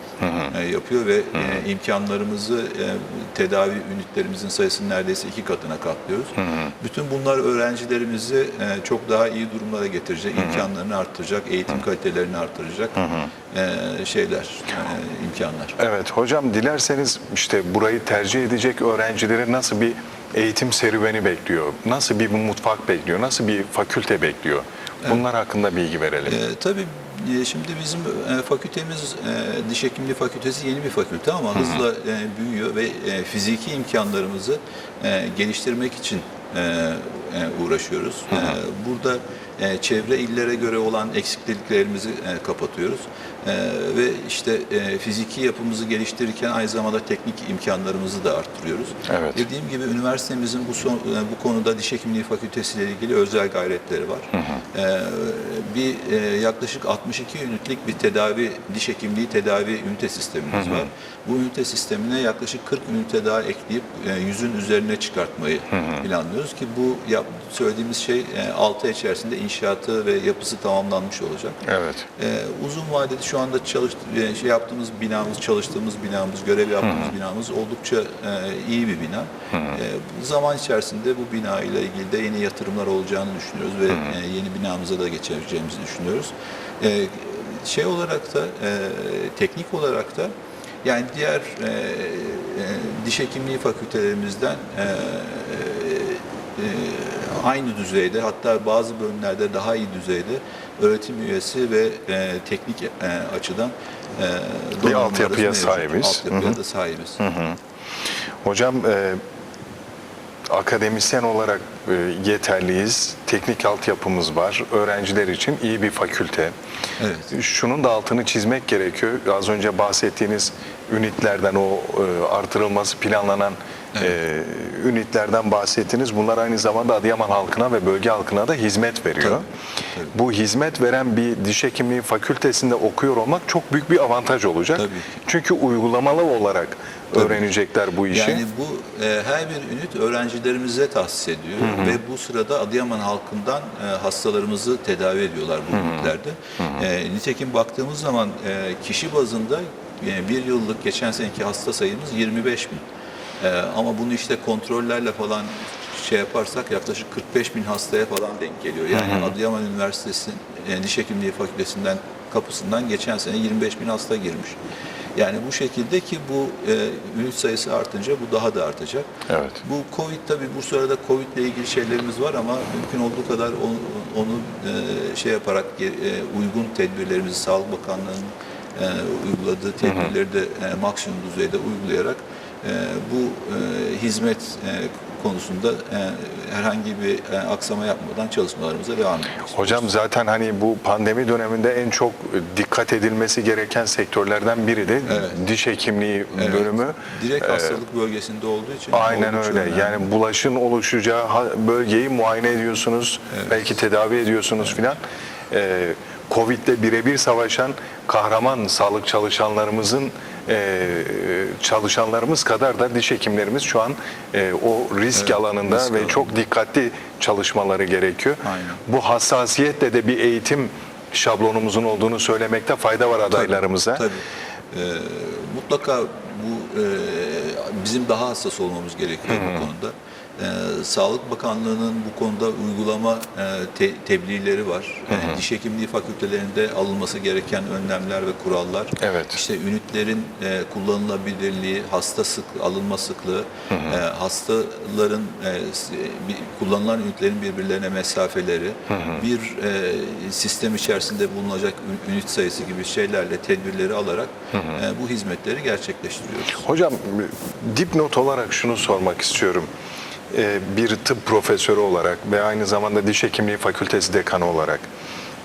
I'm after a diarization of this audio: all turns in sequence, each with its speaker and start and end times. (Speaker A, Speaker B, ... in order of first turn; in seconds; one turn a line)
Speaker A: 0.2-0.5
Speaker B: 0.5-13.0
Speaker A: 6.4-6.7
Speaker A: 13.0-13.3
Speaker B: 13.5-15.8
Speaker A: 15.8-26.4
Speaker B: 26.3-71.6
Speaker A: 49.1-49.5
Speaker A: 54.4-54.6
Speaker A: 60.5-60.9
Speaker A: 65.7-66.0
Speaker A: 71.7-72.1
Speaker B: 72.2-90.3
Speaker A: 79.5-79.8
Speaker B: 90.8-107.2
Speaker A: 104.8-106.6
Speaker A: 107.2-107.6
Speaker A: 108.4-109.2
Speaker A: 110.5-116.5
Speaker B: 117.0-117.3
Speaker A: 117.3-129.5
Speaker A: 130.1-138.4
Speaker B: 134.8-135.1
Speaker B: 137.1-137.4
Speaker B: 138.1-152.8
Speaker A: 141.6-142.0
Speaker A: 145.7-146.1
Speaker B: 153.4-164.6
Speaker A: 158.9-159.3
Speaker B: 165.2-169.1
Speaker A: 169.3-169.6
Speaker B: 169.6-189.9
Speaker A: 189.5-197.7
Speaker B: 195.1-195.4
Speaker B: 196.3-200.0
Speaker A: 198.9-224.0
Speaker B: 215.1-216.3
Speaker B: 218.4-218.8
Speaker B: 223.3-256.6
Speaker A: 229.3-229.7
Speaker A: 235.1-235.4
Speaker A: 239.0-239.4
Speaker A: 243.7-244.0
Speaker A: 248.9-249.2
Speaker A: 254.5-254.8
Speaker A: 256.6-259.7
Speaker A: 260.3-264.9